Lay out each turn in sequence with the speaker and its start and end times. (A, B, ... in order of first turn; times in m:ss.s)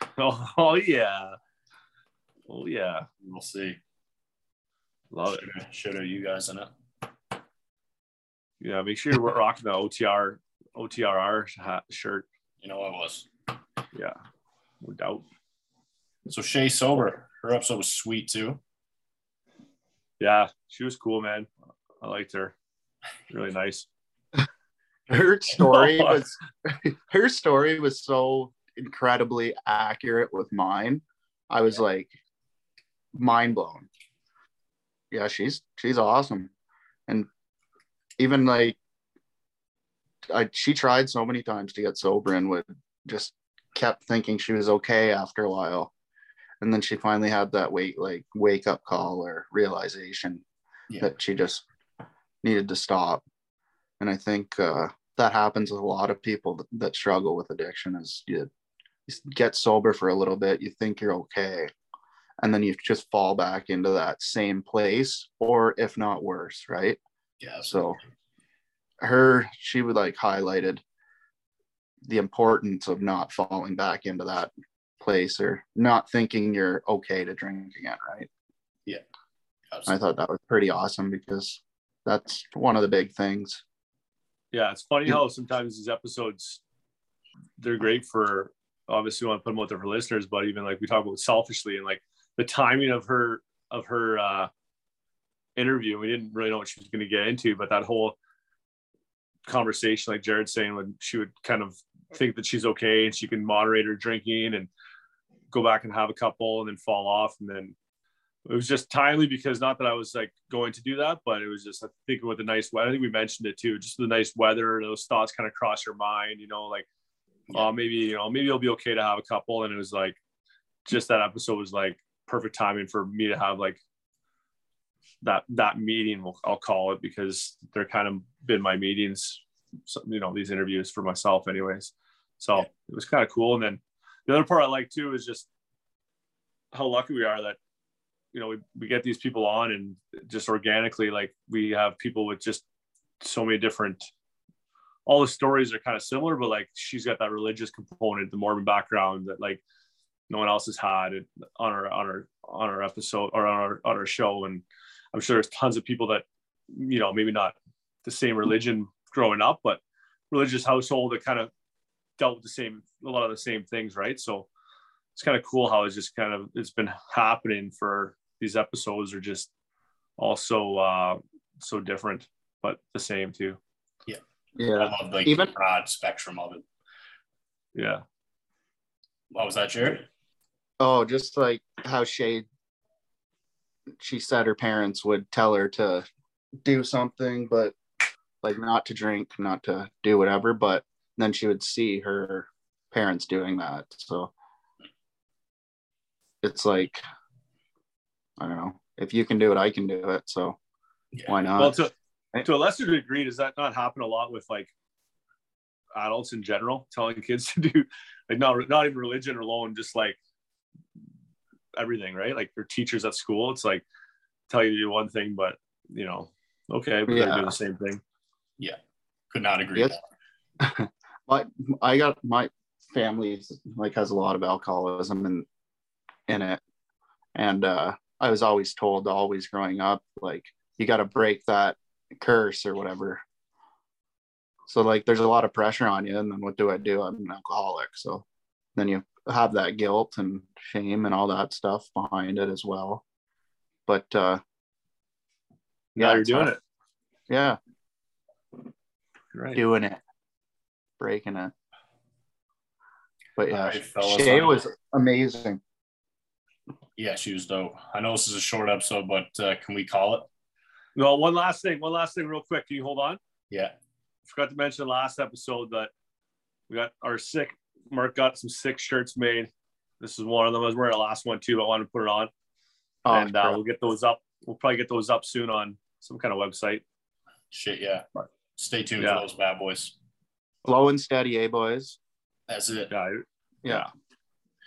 0:00.2-0:01.4 A
0:02.5-0:03.1 A
0:03.2-0:03.8 B
0:05.1-0:05.4 A
0:05.3-0:06.7 B
0:08.6-0:12.3 A
0:12.6-0:13.3 B
0:14.8-0:15.2 A
0:16.3-0:18.6 B
0:20.2-0:21.5 A
0:22.0-0:22.6 A
0:23.3-0:23.9 A
0:25.1-0:32.1 C
0:25.6-0:26.2 A
0:33.1-0:33.9 C
0:35.1-0:36.5 C
0:38.2-0:38.8 C
0:40.3-0:45.9 C
0:46.6-0:50.4 C
0:51.0-0:51.6 C
0:52.4-0:53.2 C
0:54.0-0:58.5 C
0:59.1-1:01.7 C
1:02.4-1:07.0 C
1:07.4-1:07.9 B
1:07.6-1:08.0 C
1:09.0-1:10.8 C
1:12.0-1:18.3 C
1:19.7-1:20.0 B
1:19.9-1:23.6 C
1:24.5-1:26.6 A
1:27.6-1:34.5 A
1:35.6-1:38.2 A
1:39.5-1:44.7 A
1:45.5-1:47.8 A
1:48.5-1:56.9 A
1:57.5-2:00.2 A
2:00.9-2:03.8 A
2:05.2-2:15.5 A
2:16.7-2:17.6 A
2:18.3-2:22.6 A
2:23.2-2:24.0 A
2:25.1-2:29.6 A
2:30.3-2:41.5 A
2:42.2-2:44.5 A
2:45.2-2:49.5 A
2:50.2-2:53.6 A
2:54.6-2:55.5 C
2:54.8-2:56.6 B
2:57.8-2:58.0 A
2:59.3-3:00.1 B
3:00.8-3:02.5 C
3:04.0-3:06.1 C
3:06.6-3:07.8 C
3:08.4-3:14.3 C
3:16.4-3:17.0 C
3:18.4-3:20.6 C
3:21.1-3:21.4 B
3:21.3-3:21.8 C
3:21.6-3:21.9 A
3:22.4-3:24.7 A
3:26.0-3:30.2 A
3:31.8-3:33.8 A
3:34.5-3:38.0 A
3:37.1-3:37.5 C
3:39.3-3:40.0 B
3:40.6-3:45.5 C
3:46.3-3:46.6 C
3:47.4-3:53.2 C
3:54.7-4:03.0 C
4:03.9-4:04.4 C
4:06.0-4:06.5 C
4:06.0-4:06.6 A
4:07.3-4:07.6 C
4:09.3-4:09.6 A
4:09.6-4:10.0 C
4:11.0-4:11.5 C
4:13.4-4:15.6 C
4:13.5-4:14.6 B
4:17.0-4:20.3 B
4:21.0-4:23.2 A
4:24.3-4:25.9 A
4:26.7-4:32.3 A
4:33.0-4:33.6 C
4:33.1-4:36.8 A
4:37.5-4:40.0 B
4:39.0-4:39.2 A
4:40.6-4:42.0 C
4:42.5-4:42.9 B
4:42.9-4:43.9 A